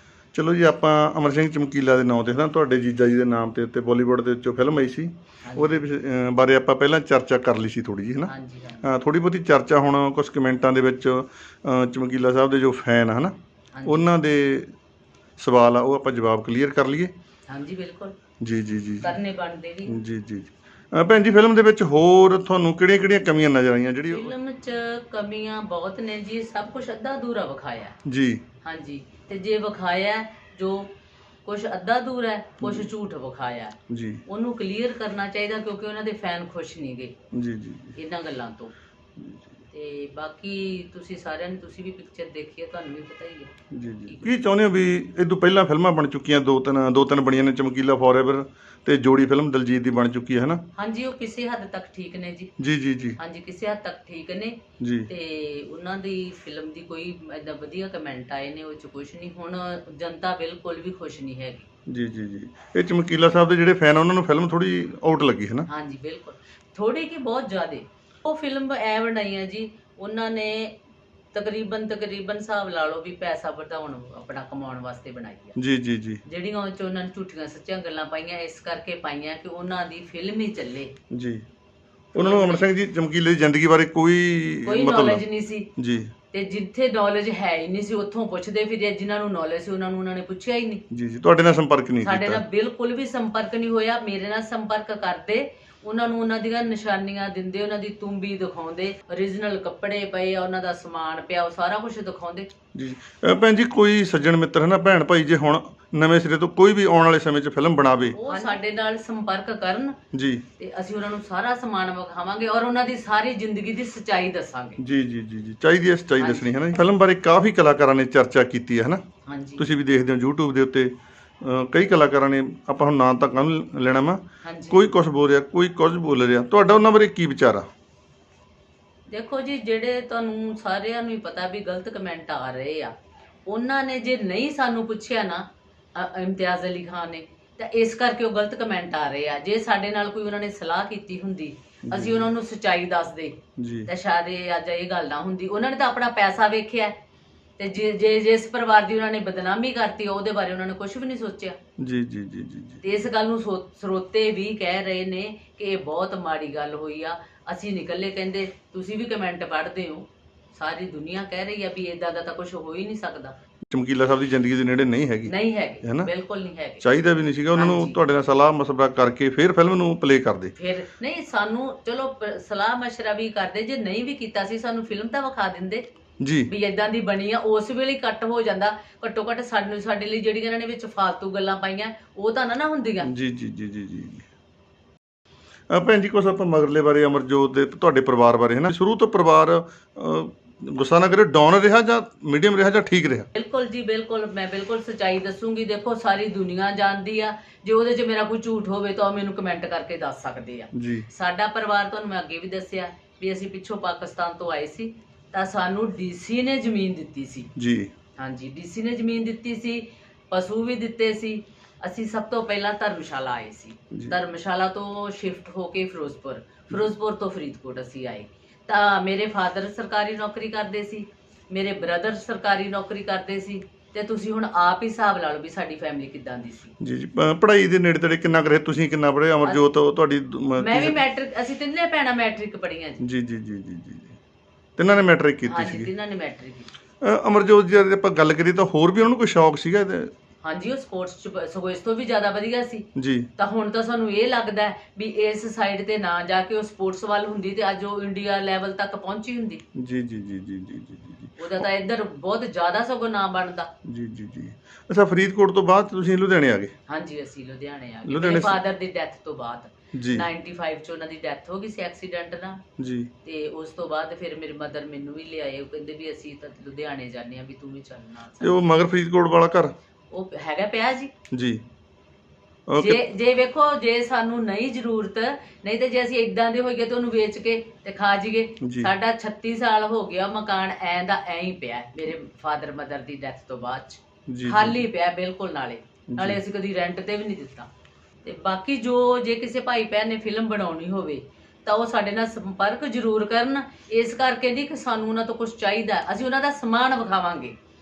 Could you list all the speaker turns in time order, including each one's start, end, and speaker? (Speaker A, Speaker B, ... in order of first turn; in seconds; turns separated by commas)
Speaker A: 0.3-13.3, Speaker B: 5.4-5.8, Speaker B: 8.3-8.9, Speaker B: 13.7-14.1, Speaker A: 13.9-14.7, Speaker A: 15.4-17.1, Speaker B: 17.5-18.2, Speaker A: 18.4-19.2, Speaker B: 19.0-20.0, Speaker A: 19.9-24.3, Speaker B: 24.1-28.0, Speaker A: 28.1-28.4, Speaker B: 28.6-30.9, Speaker B: 31.4-37.2, Speaker A: 32.6-32.9, Speaker A: 33.9-34.2, Speaker A: 37.3-38.0, Speaker B: 38.0-38.7, Speaker A: 39.2-39.5, Speaker B: 39.7-43.5, Speaker A: 43.7-50.6, Speaker B: 44.1-44.3, Speaker B: 50.8-52.5, Speaker A: 52.6-53.2, Speaker B: 53.2-61.7, Speaker A: 54.8-55.1, Speaker A: 61.9-65.7, Speaker B: 65.7-70.8, Speaker B: 71.3-75.6, Speaker A: 75.6-76.2, Speaker B: 76.2-80.9, Speaker A: 81.1-81.4, Speaker B: 82.2-82.7, Speaker A: 82.2-85.2, Speaker B: 84.7-85.7, Speaker A: 85.8-86.1, Speaker B: 86.3-90.8, Speaker A: 90.9-92.4, Speaker B: 92.0-102.5, Speaker A: 102.8-108.2, Speaker B: 108.1-110.0, Speaker A: 110.1-110.4, Speaker B: 110.6-114.8, Speaker A: 114.8-119.0, Speaker B: 116.2-116.5, Speaker B: 119.2-119.7, Speaker A: 119.6-127.7, Speaker B: 124.4-124.9, Speaker B: 129.1-132.9, Speaker B: 133.5-147.0, Speaker A: 141.9-142.3, Speaker A: 143.6-143.9, Speaker B: 147.6-151.6, Speaker A: 151.8-152.8, Speaker B: 152.8-163.3, Speaker A: 163.7-166.1, Speaker B: 165.3-166.9, Speaker A: 166.8-170.5, Speaker B: 167.5-168.0, Speaker B: 170.6-175.9, Speaker A: 176.2-176.5, Speaker B: 176.5-183.1, Speaker A: 183.0-184.3, Speaker A: 185.7-193.3, Speaker B: 193.3-207.5, Speaker A: 200.8-201.1, Speaker A: 207.6-207.9, Speaker B: 208.2-226.8, Speaker A: 226.8-231.0, Speaker B: 230.6-233.0, Speaker A: 233.0-234.2, Speaker A: 234.8-235.9, Speaker B: 235.5-236.7, Speaker A: 237.0-240.1, Speaker B: 240.4-249.6, Speaker A: 243.0-243.3, Speaker A: 249.8-251.4, Speaker B: 251.4-253.7, Speaker A: 253.8-256.7, Speaker B: 256.9-262.6, Speaker A: 258.1-258.6, Speaker A: 259.9-260.3, Speaker A: 262.8-263.1, Speaker B: 263.2-268.6, Speaker A: 268.4-269.7, Speaker B: 270.1-271.1, Speaker A: 271.3-271.6, Speaker A: 272.7-273.0, Speaker B: 272.8-287.7, Speaker A: 278.6-278.9, Speaker A: 284.3-284.8, Speaker A: 286.1-286.4, Speaker B: 288.2-297.6